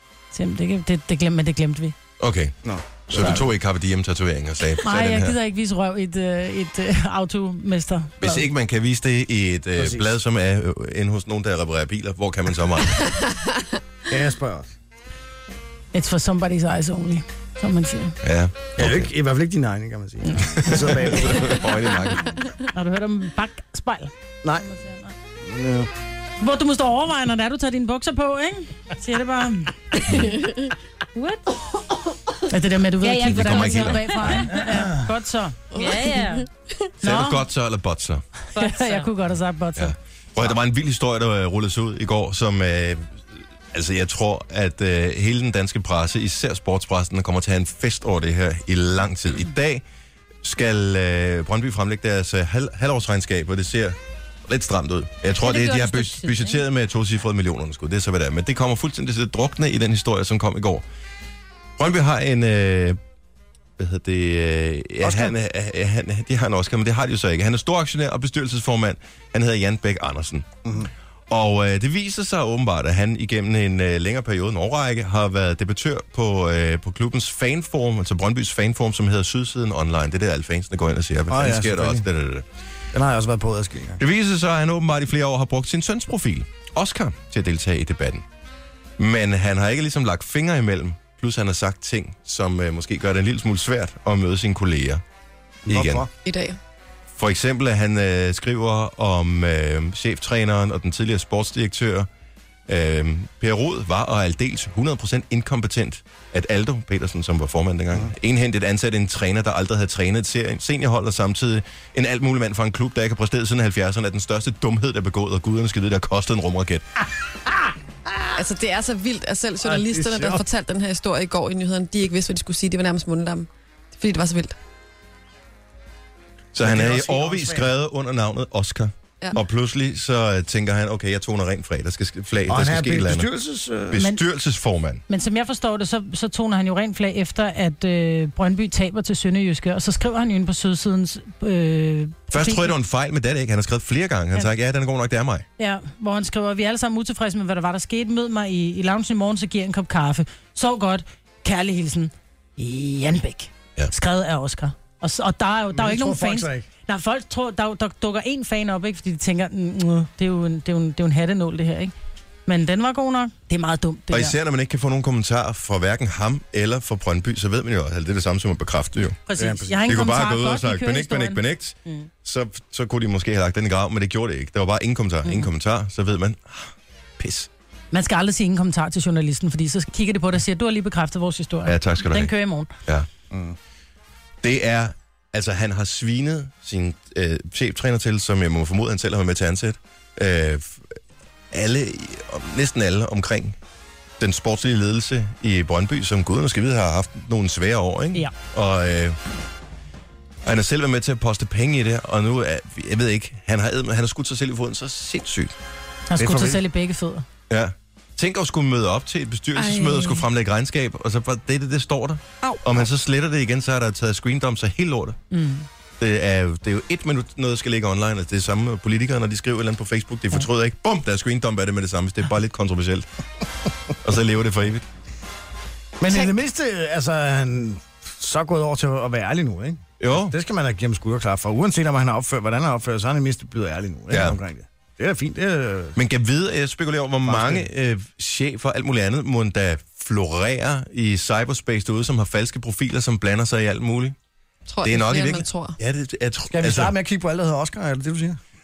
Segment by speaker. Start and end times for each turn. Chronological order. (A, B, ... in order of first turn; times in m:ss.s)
0:00.3-0:02.0 A
0:02.2-0:05.4 B
0:02.6-0:03.5 C
0:04.8-0:08.5 A
0:08.2-0:13.1 B
0:09.8-0:10.2 C
0:14.1-0:14.7 C
0:15.9-0:18.2 A
0:18.2-0:19.1 B
0:18.8-0:21.6 C
0:20.3-0:20.6 A
0:20.5-0:22.4 B
0:22.7-0:24.1 A
0:24.7-0:25.1 A
0:25.4-0:25.9 C
0:26.4-0:30.1 A
0:30.2-0:30.7 D
0:31.2-0:31.4 E
0:32.5-0:35.6 A
0:33.0-0:34.6 E
0:33.2-0:34.4 B
0:35.7-0:36.4 D
0:35.7-0:36.4 E
0:37.0-0:37.4 A
0:37.0-0:38.2 B
0:38.5-0:39.1 E
0:38.5-0:39.9 A
0:39.8-0:43.2 B
0:43.7-0:49.8 B
0:50.4-1:00.8 B
0:55.4-0:56.6 E
1:01.8-1:03.0 B
1:03.8-1:10.5 B
1:05.0-1:05.3 C
1:11.3-1:22.4 B
1:21.3-1:22.0 C
1:22.9-1:24.0 C
1:24.0-1:28.2 B
1:29.0-1:35.0 B
1:35.6-1:36.1 C
1:35.7-1:36.0 B
1:36.2-1:36.6 D
1:37.2-1:42.1 B
1:42.7-1:56.8 B
1:57.5-1:58.4 C
1:58.4-2:04.6 D
1:59.6-2:00.4 C
2:06.5-2:13.3 B
2:06.6-2:07.7 C
2:12.5-2:14.0 C
2:13.9-2:15.0 B
2:14.0-2:14.2 A
2:15.1-2:22.7 A
2:22.3-2:25.4 B
2:25.6-2:41.9 A
2:35.7-2:36.7 C
2:42.5-2:44.4 A
2:44.1-2:49.2 B
2:49.2-2:52.1 A
2:49.4-2:49.8 C
2:49.8-2:57.5 B
2:57.9-3:02.7 A
3:01.6-3:02.3 B
3:03.3-3:03.6 C
3:04.4-3:10.8 B
3:11.5-3:13.6 B
3:14.2-3:19.2 B
3:20.4-3:25.6 B
3:26.1-3:27.2 A
3:26.2-3:26.6 C
3:27.5-3:35.2 B
3:29.6-3:30.2 A
3:35.3-3:35.6 A
3:36.0-3:43.0 B
3:44.0-3:44.8 B
3:46.0-3:56.0 C
3:50.0-3:50.3 B
3:54.1-3:54.4 B
3:56.0-4:04.2 B
3:57.2-3:57.7 C
4:04.7-4:05.8 D
4:04.8-4:06.9 B
4:06.5-4:08.4 C